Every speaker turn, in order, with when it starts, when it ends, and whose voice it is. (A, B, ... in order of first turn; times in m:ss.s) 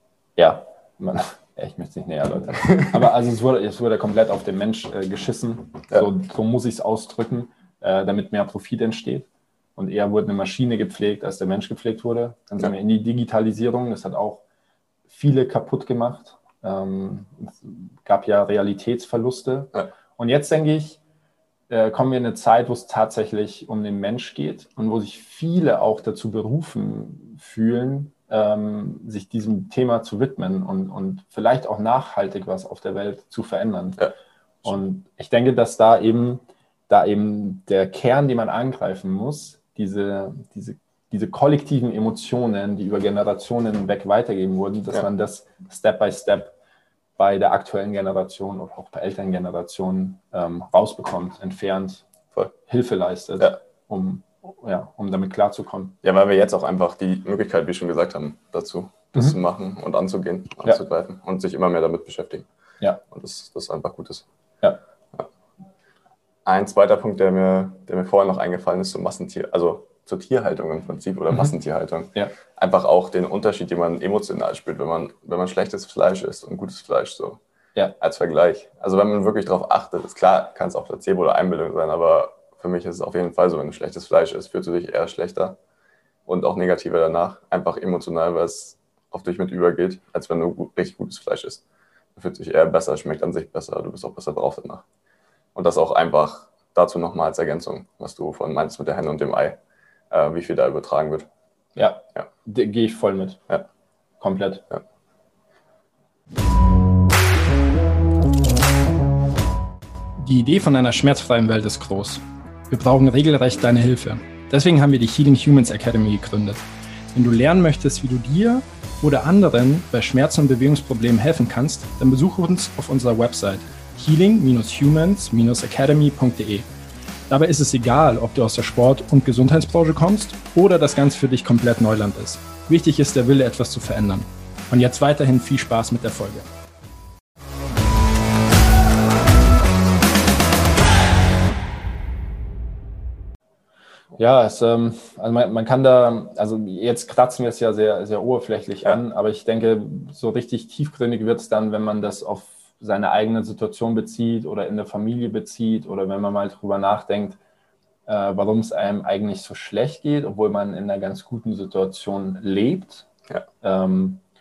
0:00.4-0:14.4 A
0:02.6-0:03.0 B
0:15.1-0:21.0 A
0:21.7-0:34.1 A
0:34.6-0:46.6 A
0:47.2-0:52.0 A
0:52.7-0:56.0 A
0:56.0-1:02.5 B
1:03.1-1:04.3 B
1:06.5-1:17.4 B
1:18.0-1:25.6 B
1:26.3-1:31.6 B
1:32.2-1:34.8 B
1:35.6-1:39.6 B
1:40.1-1:41.3 B
1:41.8-1:43.4 A
1:44.2-1:44.7 A
1:50.2-1:56.6 C
1:57.2-2:06.7 C
2:07.3-2:16.5 C
2:24.2-2:37.4 A
2:38.1-2:43.1 A
2:43.6-2:44.2 A